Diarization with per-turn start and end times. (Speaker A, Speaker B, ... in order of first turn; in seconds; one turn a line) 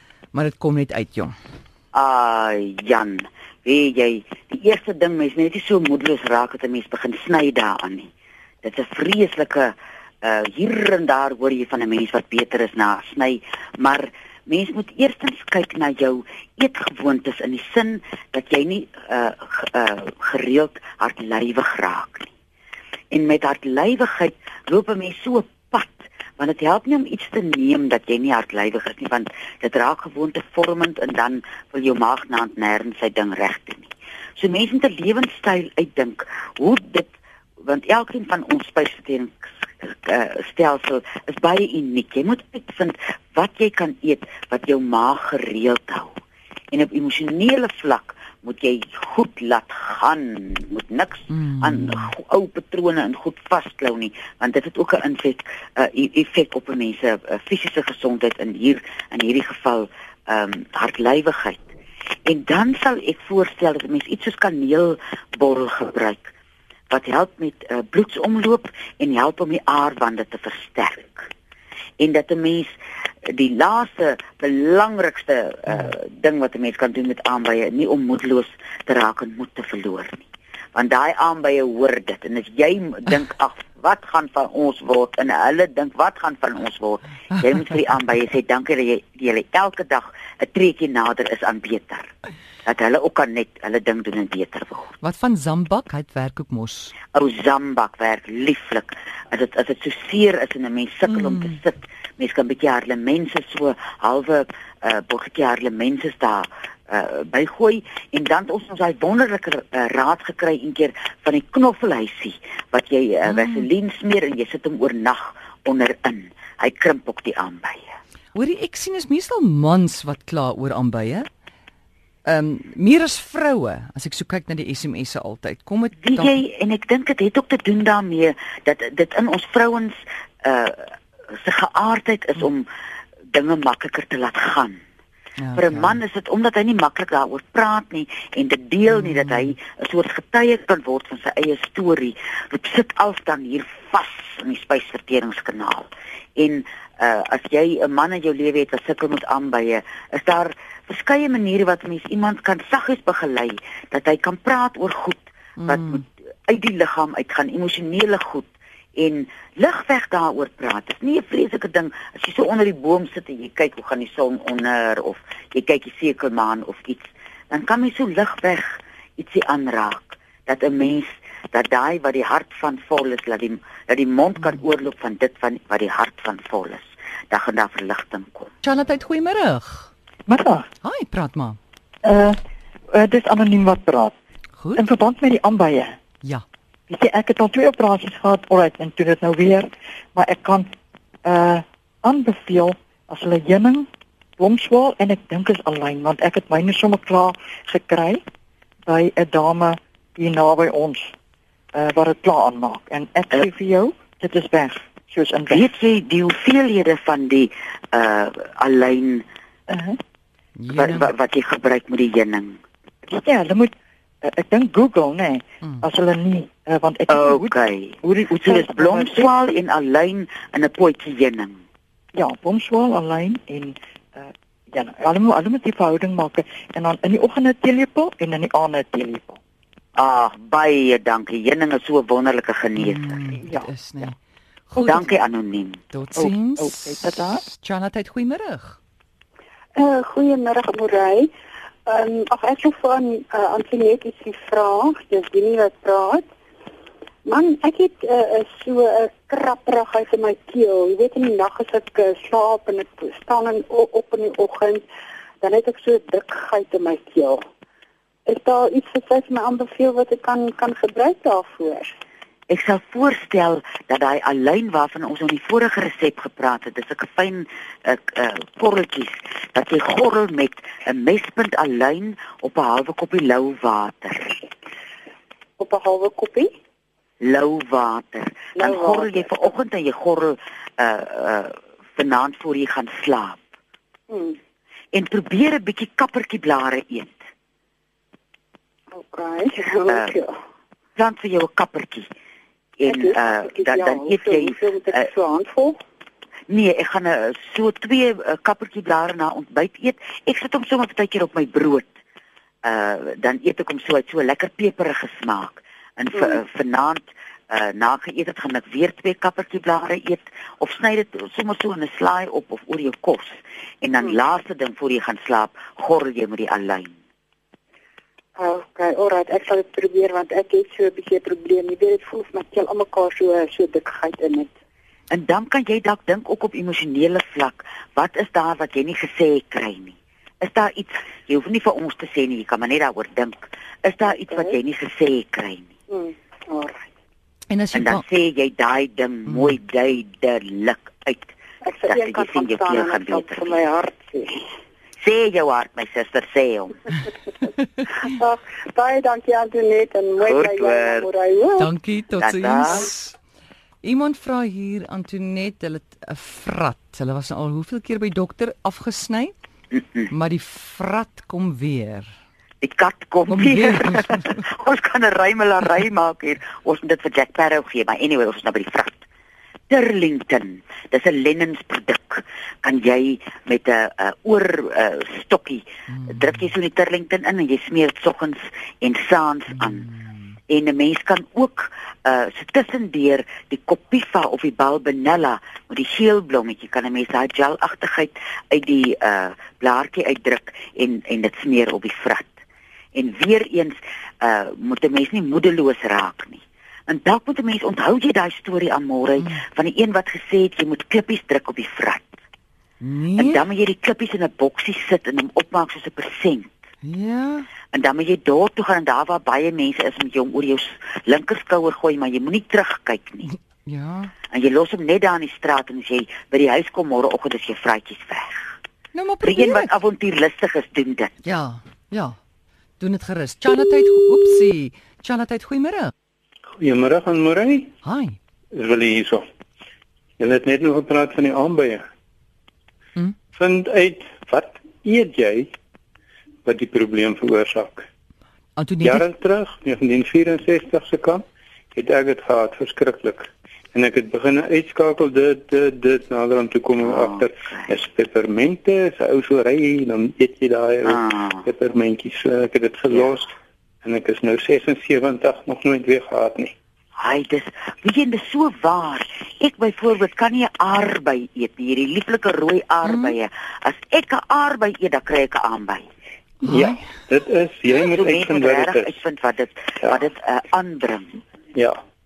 Speaker A: 0.3-1.4
Speaker B: 1.9-8.1
Speaker B: 8.6-22.3
Speaker B: 23.1-37.1
Speaker B: 37.6-46.2
Speaker B: 46.7-61.6
Speaker A: 51.3-52.1
Speaker B: 62.3-66.3
Speaker B: 66.9-71.3
Speaker B: 72.0-92.1
Speaker B: 92.7-94.9
Speaker A: 95.0-96.9
Speaker B: 97.1-118.0
Speaker A: 113.3-113.6
Speaker A: 118.3-121.3
Speaker A: 122.2-126.3
Speaker B: 126.0-132.7
Speaker B: 133.3-134.8
Speaker A: 135.4-136.0
Speaker B: 135.6-178.5
Speaker A: 139.0-139.5
Speaker A: 155.6-156.0
Speaker A: 178.6-179.9
Speaker C: 180.3-180.7
Speaker A: 180.8-181.6
Speaker C: 182.0-182.4
Speaker C: 182.9-184.1
Speaker A: 184.6-184.8
Speaker C: 184.8-186.0
Speaker C: 186.9-190.7
Speaker C: 191.2-193.9
Speaker C: 194.4-198.2
Speaker C: 198.9-201.1
Speaker C: 201.7-205.6
Speaker B: 205.5-209.3
Speaker C: 209.7-210.0
Speaker A: 210.6-211.1
Speaker B: 210.7-212.6
Speaker C: 213.1-213.7
Speaker C: 214.2-219.3
Speaker B: 217.1-221.6
Speaker C: 222.2-229.4
Speaker B: 230.0-233.0
Speaker A: 232.8-234.2
Speaker A: 234.7-235.1
Speaker B: 234.8-235.8
Speaker A: 235.9-238.8
Speaker C: 236.2-237.4
Speaker D: 239.8-241.3
Speaker D: 241.9-246.3
Speaker D: 247.3-254.8
Speaker D: 255.4-257.4
Speaker D: 258.3-261.9
Speaker B: 262.5-274.4
Speaker D: 275.6-276.5
Speaker B: 277.2-283.4
Speaker D: 278.6-279.2
Speaker D: 284.1-284.4
Speaker B: 284.9-287.2
Speaker D: 288.9-290.4
Speaker B: 289.9-290.1
Speaker B: 291.0-292.1
Speaker B: 292.8-295.1
Speaker D: 292.9-295.8
Speaker B: 296.5-301.9
Speaker B: 302.6-316.9
Speaker D: 318.4-324.5
Speaker B: 325.1-335.7
Speaker D: 334.2-334.6
Speaker D: 335.9-336.9
Speaker A: 337.5-338.0
Speaker B: 337.7-341.3
Speaker D: 341.6-344.4
Speaker B: 341.9-343.6
Speaker B: 345.0-346.9
Speaker D: 348.0-351.7
Speaker B: 350.2-351.1
Speaker A: 351.6-353.2
Speaker B: 352.2-352.9
Speaker A: 353.8-359.3
Speaker B: 359.7-360.1
Speaker A: 360.1-362.1
Speaker B: 362.6-369.0
Speaker A: 363.3-364.4
Speaker B: 369.7-379.9
Speaker A: 375.9-376.2
Speaker A: 379.6-380.1
Speaker B: 380.5-392.3
Speaker B: 392.9-402.2
Speaker A: 402.8-403.4
Speaker B: 403.2-406.5
Speaker A: 406.8-407.5
Speaker B: 407.7-413.3
Speaker A: 413.7-414.1
Speaker B: 414.3-418.5
Speaker A: 418.9-419.7
Speaker B: 419.2-421.1
Speaker A: 421.2-422.2
Speaker A: 422.8-425.9
Speaker E: 426.6-427.7
Speaker A: 427.8-428.2
Speaker E: 428.5-429.2
Speaker E: 430.2-431.8
Speaker E: 433.3-435.5
Speaker E: 436.4-437.9
Speaker A: 438.6-439.1
Speaker E: 438.8-456.5
Speaker B: 446.8-447.7
Speaker B: 450.9-451.4
Speaker B: 457.0-465.9
Speaker A: 462.9-463.2
Speaker E: 466.4-469.0
Speaker A: 466.4-466.8
Speaker B: 467.8-471.2